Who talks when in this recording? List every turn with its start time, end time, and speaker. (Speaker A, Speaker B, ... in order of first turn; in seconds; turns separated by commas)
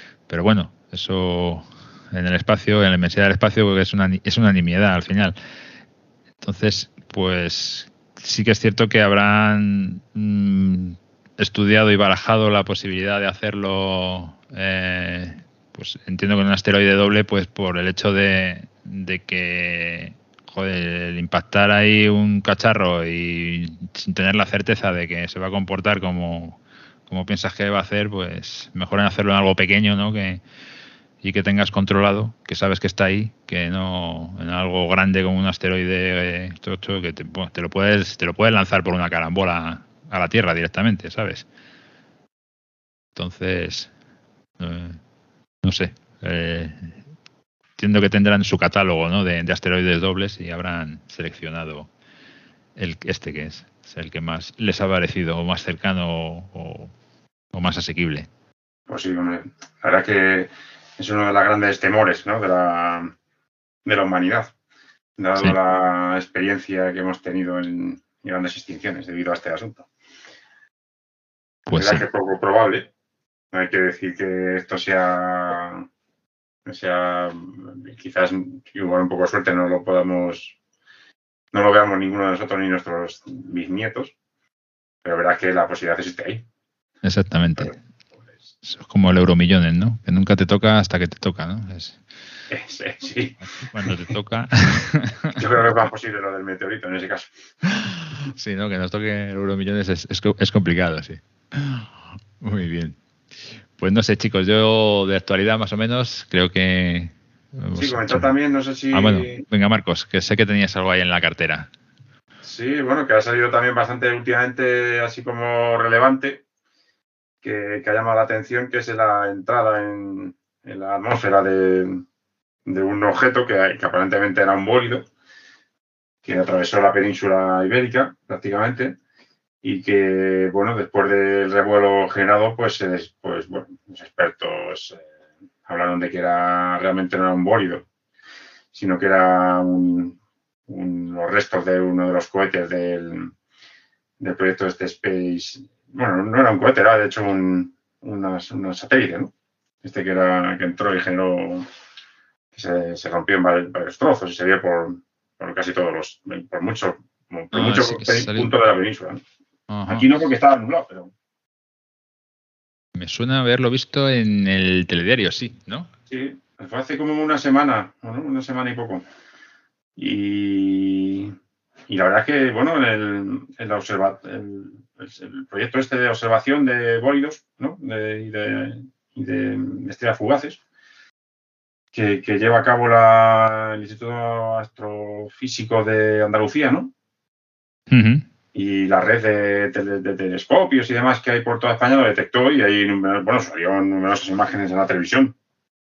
Speaker A: 0.3-5.3, Speaker A: 6.4-30.4, Speaker A: 31.2-41.5, Speaker A: 43.1-43.9, Speaker A: 44.6-45.0, Speaker A: 45.6-47.0, Speaker A: 47.8-51.9, Speaker A: 52.8-56.9, Speaker A: 57.5-58.3, Speaker B: 58.9-63.1, Speaker B: 63.8-64.5, Speaker B: 65.2-69.8, Speaker A: 71.7-72.0, Speaker B: 71.7-72.9, Speaker B: 73.5-75.8, Speaker B: 76.7-80.5, Speaker B: 81.5-84.1, Speaker B: 85.0-86.4, Speaker A: 87.0-87.7, Speaker A: 88.6-92.0, Speaker B: 92.5-93.3, Speaker A: 93.4-95.4, Speaker B: 95.4-97.3, Speaker A: 97.7-103.0, Speaker A: 103.8-108.3, Speaker B: 107.8-109.4, Speaker A: 108.9-111.7, Speaker B: 112.4-116.4, Speaker B: 117.4-122.0, Speaker B: 122.7-125.0, Speaker B: 126.2-129.0, Speaker B: 129.6-135.0, Speaker B: 135.7-137.8, Speaker B: 138.7-140.2, Speaker B: 140.7-143.3, Speaker B: 144.2-149.3, Speaker B: 149.8-151.7, Speaker B: 152.5-159.2, Speaker A: 157.5-158.5, Speaker A: 159.7-160.1, Speaker B: 159.9-161.1, Speaker A: 162.9-165.9, Speaker B: 166.1-169.0, Speaker B: 170.0-171.3, Speaker B: 171.9-180.6, Speaker B: 181.9-186.9, Speaker A: 187.9-188.2, Speaker B: 188.5-195.3